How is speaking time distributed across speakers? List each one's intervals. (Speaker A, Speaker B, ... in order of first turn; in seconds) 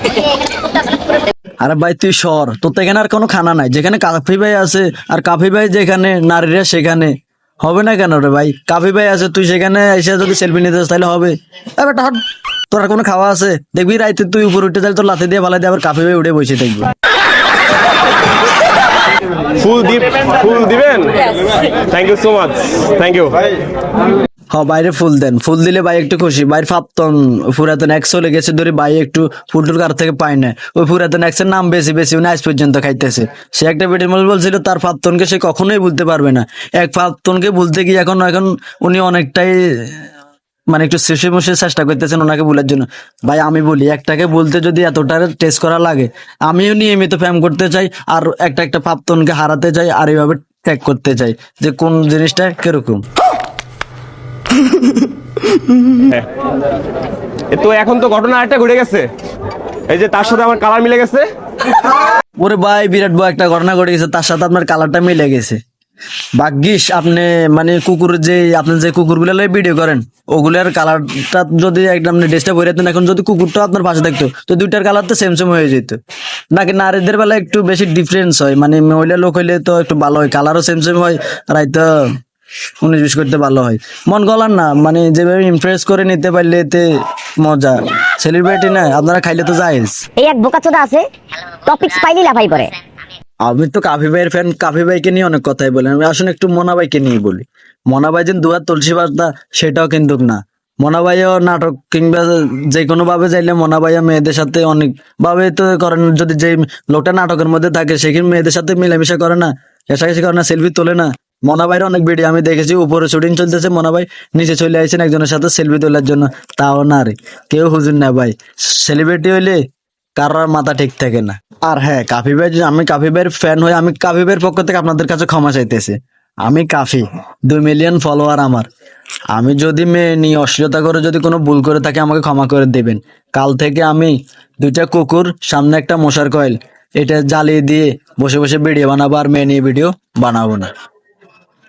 Speaker A: 1.6-16.9, 24.5-40.0, 40.7-53.0, 62.4-65.6, 66.4-76.0, 76.5-82.2, 82.8-90.0, 93.4-119.6, 120.2-128.7, 129.3-140.7
Speaker B: 19.6-21.3, 21.9-23.4, 56.0-56.3, 57.5-59.1, 59.9-61.3
Speaker C: 90.2-91.0, 91.6-92.7